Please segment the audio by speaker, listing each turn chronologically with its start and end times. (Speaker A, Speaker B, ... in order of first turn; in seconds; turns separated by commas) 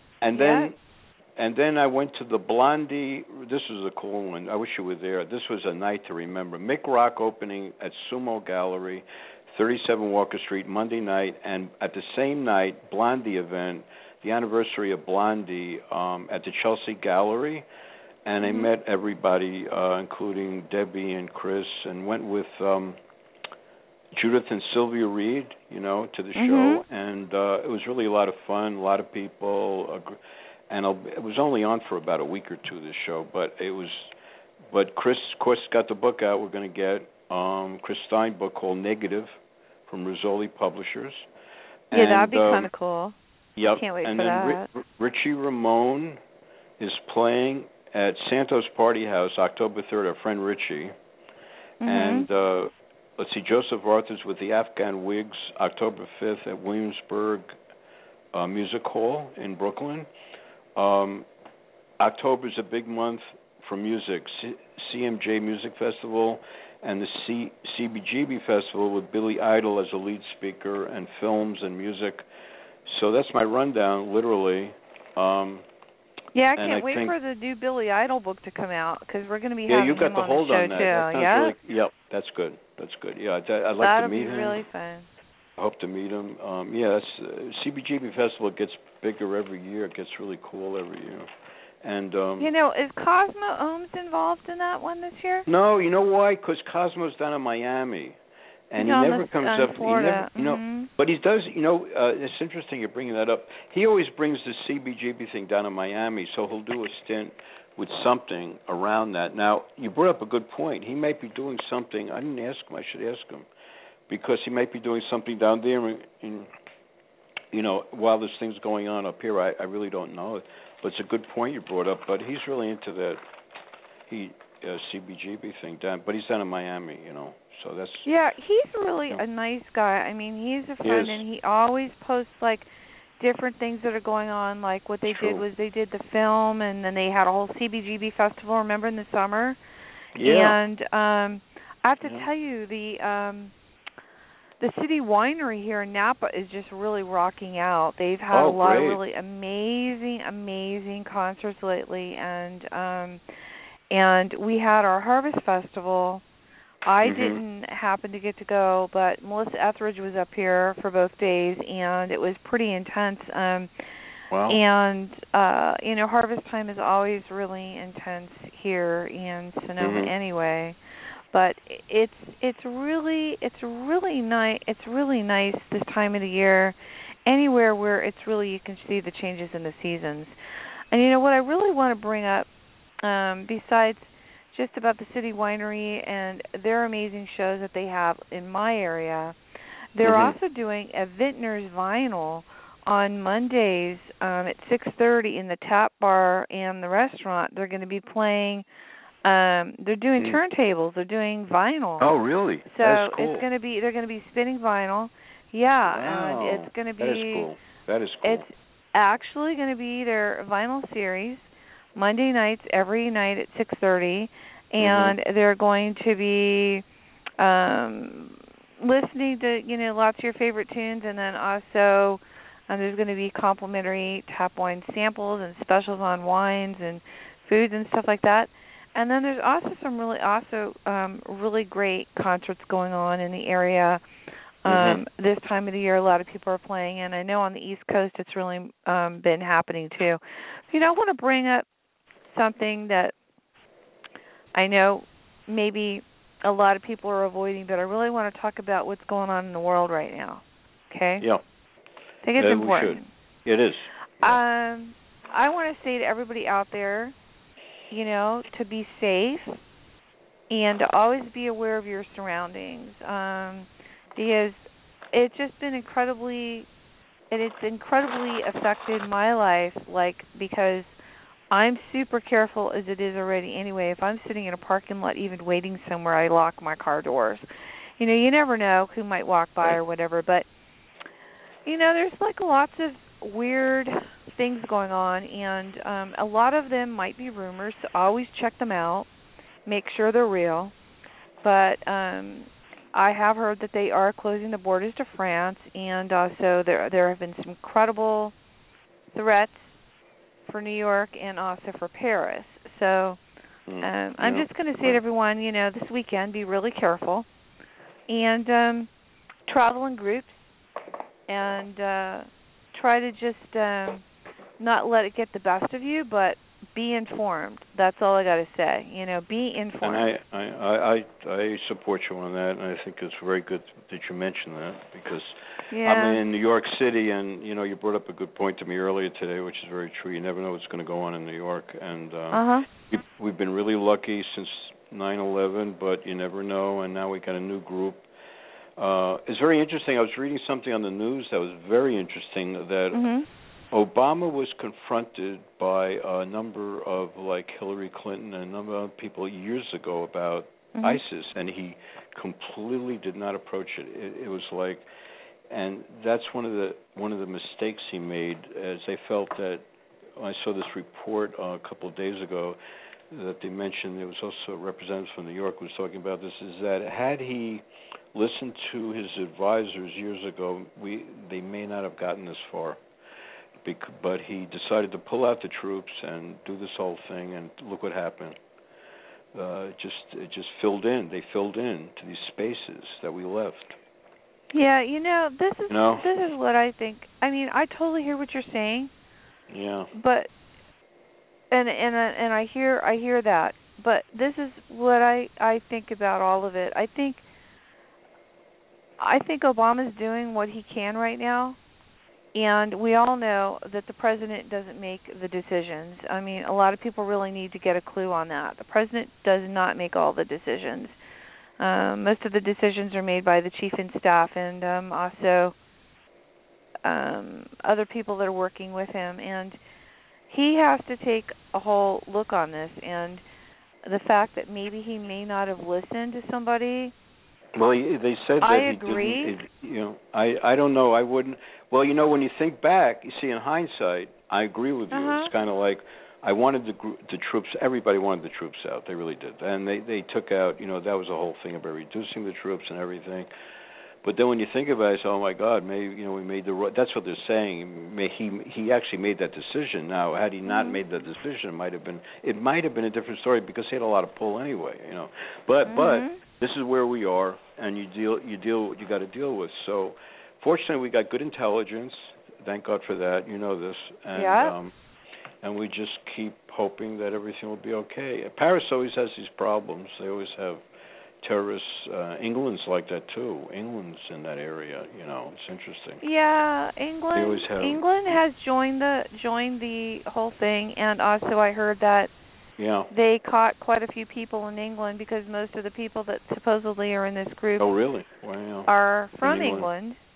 Speaker A: 0.2-0.8, Speaker B: 0.3-0.7, Speaker A: 1.4-17.6, Speaker A: 18.2-23.0, Speaker B: 18.4-18.7, Speaker A: 24.1-30.2, Speaker B: 26.4-26.8, Speaker A: 30.7-34.1, Speaker A: 34.7-39.3, Speaker A: 39.9-41.3, Speaker A: 41.9-42.7, Speaker B: 41.9-43.1, Speaker A: 43.6-46.2, Speaker B: 43.7-44.7, Speaker A: 46.8-50.9, Speaker B: 51.8-52.3, Speaker A: 51.8-57.5, Speaker A: 58.3-60.1, Speaker A: 60.8-61.3, Speaker A: 62.0-72.2, Speaker A: 72.8-75.7, Speaker B: 76.3-81.5, Speaker A: 76.6-77.1, Speaker A: 79.7-84.6, Speaker B: 83.8-85.1, Speaker A: 85.6-91.3, Speaker A: 91.8-92.5, Speaker B: 92.4-95.5, Speaker A: 95.5-98.2, Speaker A: 98.7-113.5, Speaker B: 98.8-100.9, Speaker A: 114.1-116.5, Speaker A: 117.5-123.2, Speaker A: 124.1-128.1, Speaker B: 128.1-132.7, Speaker A: 130.8-131.2, Speaker B: 133.2-139.6, Speaker A: 135.1-135.4, Speaker A: 140.2-140.6, Speaker B: 140.2-143.5, Speaker A: 142.0-142.3, Speaker B: 144.6-153.2, Speaker A: 148.3-149.0, Speaker B: 153.9-156.2, Speaker B: 156.8-163.7, Speaker A: 157.0-157.4, Speaker A: 164.3-164.6, Speaker B: 164.5-170.8, Speaker A: 169.8-170.1, Speaker B: 171.3-180.3, Speaker B: 180.9-182.5, Speaker B: 183.0-189.3, Speaker B: 189.9-198.6, Speaker A: 190.0-190.4, Speaker B: 199.2-202.1, Speaker A: 202.0-203.4, Speaker B: 202.6-207.5, Speaker A: 205.9-208.4, Speaker B: 208.2-216.8, Speaker A: 214.8-215.1, Speaker B: 217.4-234.0, Speaker B: 234.6-241.7, Speaker A: 234.7-235.0, Speaker B: 242.3-243.1, Speaker B: 244.5-251.2, Speaker B: 252.2-253.1, Speaker A: 252.4-254.4, Speaker B: 254.2-257.1, Speaker B: 257.9-259.6, Speaker B: 260.5-266.7, Speaker B: 267.3-270.9, Speaker B: 271.5-277.4, Speaker B: 278.0-280.4, Speaker B: 281.6-289.1, Speaker B: 289.6-290.7, Speaker B: 291.4-298.3, Speaker B: 299.1-299.7, Speaker B: 300.4-303.2, Speaker A: 303.7-305.0, Speaker B: 303.8-307.3, Speaker B: 308.1-308.9, Speaker B: 309.5-310.5, Speaker B: 311.3-314.0, Speaker B: 314.6-320.1, Speaker A: 319.8-338.1, Speaker B: 325.7-326.2, Speaker B: 332.3-332.7, Speaker A: 338.8-343.0, Speaker B: 342.9-343.2, Speaker A: 343.7-354.8, Speaker B: 350.7-351.0, Speaker A: 355.5-359.6, Speaker A: 360.1-362.6, Speaker A: 363.1-372.8, Speaker A: 373.6-378.4, Speaker A: 379.3-383.8, Speaker B: 384.5-388.9, Speaker A: 385.7-386.1, Speaker A: 389.5-389.9, Speaker B: 389.9-390.3, Speaker B: 391.5-397.2, Speaker B: 399.0-401.6, Speaker B: 402.3-410.9, Speaker B: 411.6-415.5, Speaker B: 416.8-419.6, Speaker B: 420.3-423.2, Speaker B: 423.8-426.9, Speaker A: 427.5-443.3, Speaker B: 428.4-429.4, Speaker B: 434.9-435.3, Speaker A: 444.0-464.7, Speaker B: 450.4-450.8, Speaker B: 455.6-456.2, Speaker B: 464.1-464.5, Speaker A: 465.4-470.6, Speaker A: 471.2-476.0, Speaker B: 476.0-482.1, Speaker A: 477.1-477.8, Speaker A: 482.6-482.9, Speaker B: 482.9-487.7, Speaker A: 487.6-488.7, Speaker B: 488.7-490.0, Speaker A: 489.2-489.7